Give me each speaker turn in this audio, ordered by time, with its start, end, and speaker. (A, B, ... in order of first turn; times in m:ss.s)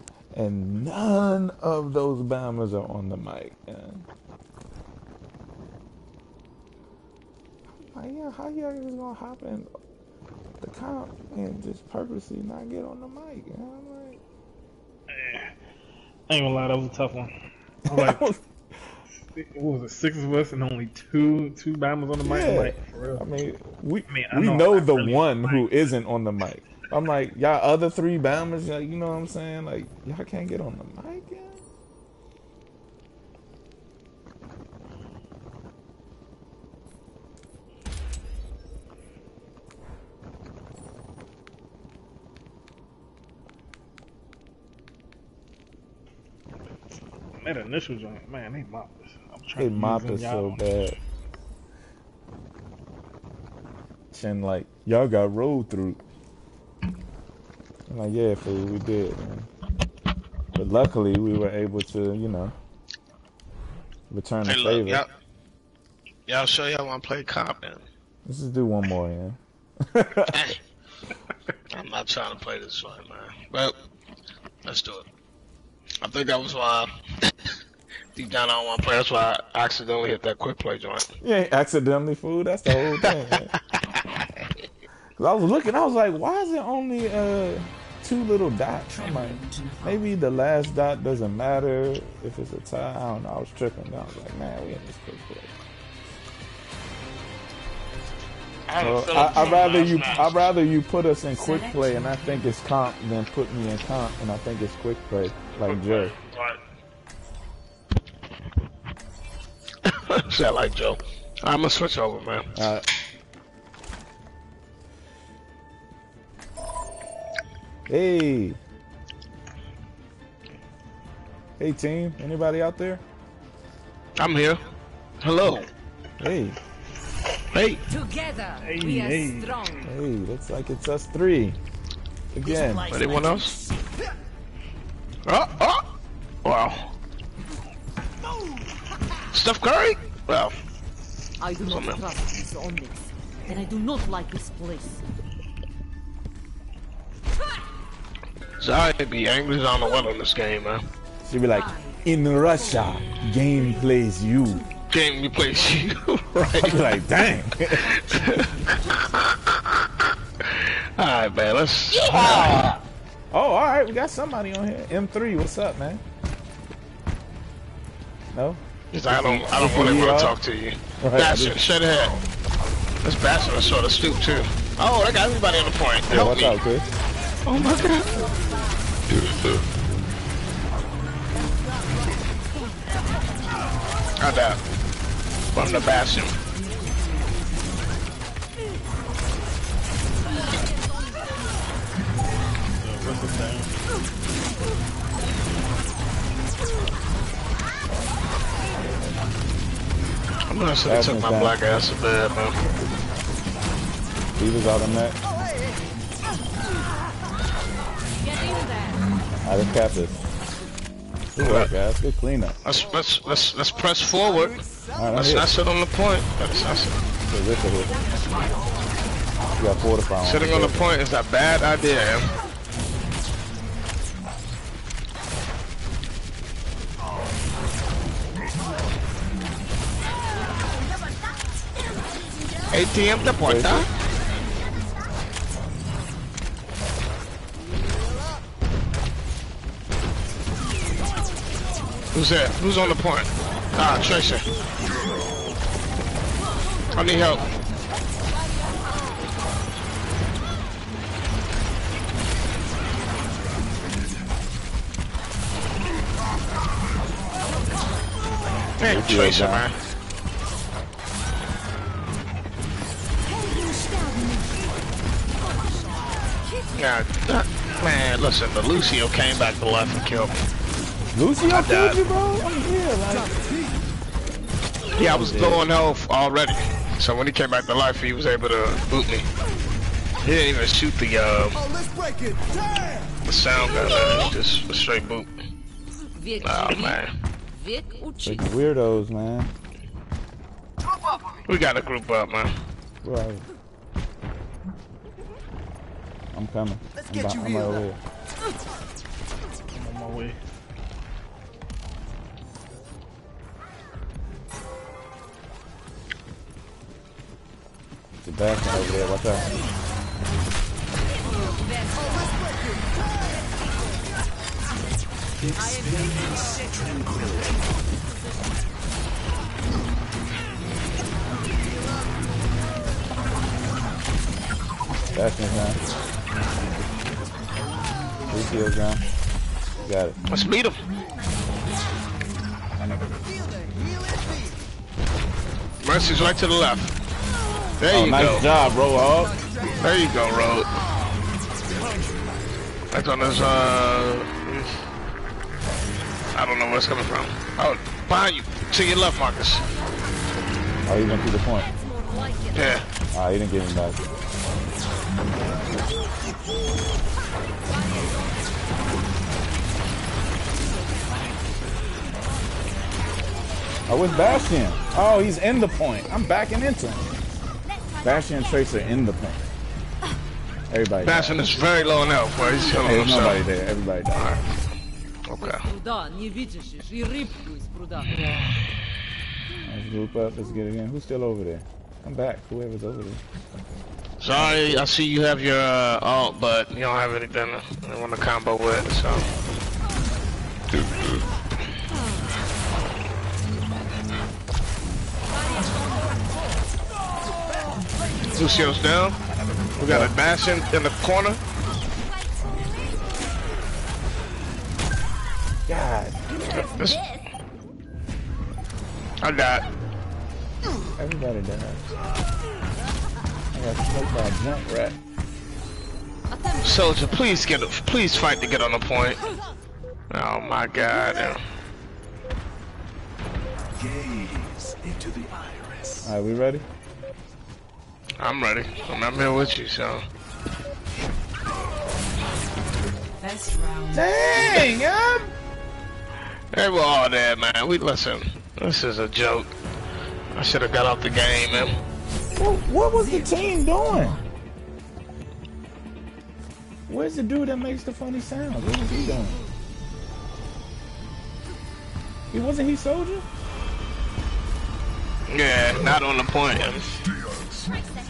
0:00.3-0:04.1 A
0:07.7-0:09.7 A
0:10.6-0:14.2 A
0:15.1-0:15.5 B
0:16.3-0:17.3 B
0:17.8-0:18.3 B
0:17.9-0:18.9 A
0:19.2-0:23.2 B
0:22.2-0:31.6 A
0:24.1-0:25.8 B
0:47.4-0:50.8 B
0:49.6-0:51.0 A
0:54.1-0:56.0 A
0:57.9-0:59.5 A
1:00.5-1:02.5 A
1:04.1-1:05.0 A
1:04.4-1:05.1 C
1:06.3-1:07.8 C
1:08.2-1:10.5 A
1:10.3-1:10.6 C
1:11.7-1:13.7 C
1:14.6-1:15.1 C
1:16.0-1:17.3 C
1:18.1-1:21.1 C
1:21.2-1:23.5 A
1:23.0-1:23.4 C
1:25.2-1:35.5 A
1:28.9-1:30.1 D
1:38.7-1:40.5 C
1:38.8-1:46.1 A
1:41.3-1:42.5 D
1:45.5-1:46.6 C
1:49.8-1:52.5 C
1:52.5-1:52.8 A
1:57.9-1:58.6 A
2:01.6-2:03.0 A
2:04.2-2:04.6 C
2:05.2-2:05.7 C
2:06.2-2:06.6 A
2:07.5-2:07.8 C
2:07.9-2:09.9 E
2:08.6-2:09.6 B
2:09.8-2:11.6 A
2:12.3-2:12.9 A
2:12.9-2:13.5 C
2:15.2-2:15.8 C
2:16.4-2:16.9 C
2:19.3-2:20.5 C
2:21.4-2:25.0 E
2:21.6-2:22.0 C
2:28.6-2:30.8 C
2:31.2-2:34.6 A
2:31.5-2:33.8 D
2:34.9-2:37.0 C
2:36.3-2:38.0 A
2:37.4-2:39.2 D
2:37.9-2:39.8 C
2:40.4-2:42.8 C
2:41.9-2:46.0 A
2:48.3-2:50.4 A
2:48.9-2:52.2 C
2:51.0-2:51.6 A
2:53.0-2:56.6 C
2:56.1-2:56.9 A
2:57.4-2:58.2 C
3:04.2-3:04.6 C
3:05.5-3:06.3 C
3:06.5-3:07.5 D
3:10.3-3:11.4 E
3:12.8-3:13.8 B
3:20.5-3:22.6 C
3:20.8-3:21.6 A
3:24.4-3:25.2 A
3:28.2-3:29.0 E
3:29.4-3:30.2 A
3:31.3-3:32.6 A
3:31.4-3:31.7 C
3:32.6-3:37.0 C
3:34.9-3:35.5 A
3:37.3-3:38.0 A
3:37.9-3:38.8 D
3:39.6-3:40.9 A
3:40.2-3:42.3 C
3:52.7-3:53.9 C
3:53.4-3:53.9 A
4:02.1-4:04.4 C
4:06.7-4:07.4 E
4:06.9-4:07.4 C
4:18.8-4:19.7 C
4:18.8-4:19.7 A
4:23.3-4:24.6 E
4:25.4-4:26.7 E
4:26.8-4:30.4 C
4:31.1-4:33.4 A
4:31.5-4:32.0 C
4:35.0-4:39.3 C
4:35.0-4:35.7 A
4:40.2-4:41.7 C
4:43.2-4:45.3 C
4:46.2-4:48.6 E
4:46.4-4:47.1 C
4:48.2-4:49.5 A
4:51.4-4:52.5 C
4:53.0-4:53.4 A
4:56.3-4:58.0 A
4:59.7-5:00.4 B
5:08.2-5:09.6 A
5:11.3-5:12.4 E
5:15.4-5:17.6 F
5:15.6-5:16.9 E
5:25.1-5:25.8 A
5:28.3-5:29.0 A
5:29.8-5:30.2 A
5:30.3-5:30.8 C
5:35.8-5:36.9 C
5:37.8-5:38.5 C
5:37.9-5:39.4 A
5:39.8-5:40.8 C
5:42.9-5:44.8 C
5:46.3-5:49.6 C
5:50.8-5:51.7 A
5:51.5-5:52.8 E
5:52.5-5:52.8 C
5:53.1-5:54.0 A
5:57.7-5:58.8 E
6:03.9-6:07.1 A
6:08.0-6:09.5 A
6:10.7-6:11.6 A
6:11.0-6:13.4 C
6:12.8-6:14.4 A
6:14.1-6:14.4 C
6:15.3-6:15.6 C
6:15.4-6:18.4 E
6:18.1-6:18.6 C
6:19.6-6:23.2 A
6:24.2-6:29.3 C
6:24.3-6:24.9 A
6:35.3-6:36.6 E
6:38.3-6:39.2 C
6:39.7-6:40.1 A
6:39.8-6:41.4 C
6:45.6-6:46.4 A
6:46.4-6:47.2 C
6:49.2-6:49.6 C
6:51.0-6:51.9 A
6:53.5-6:55.0 A
6:56.3-6:57.0 E
6:56.6-6:59.2 C
7:00.1-7:01.4 C
7:03.7-7:06.1 F
7:06.0-7:06.6 A
7:08.2-7:10.0 C
7:13.2-7:14.4 D
7:13.9-7:15.3 A
7:16.5-7:19.5 C
7:20.3-7:21.7 C
7:22.4-7:24.2 A
7:22.9-7:24.3 D
7:26.9-7:29.4 A
7:32.3-7:33.2 A
7:35.3-7:36.9 C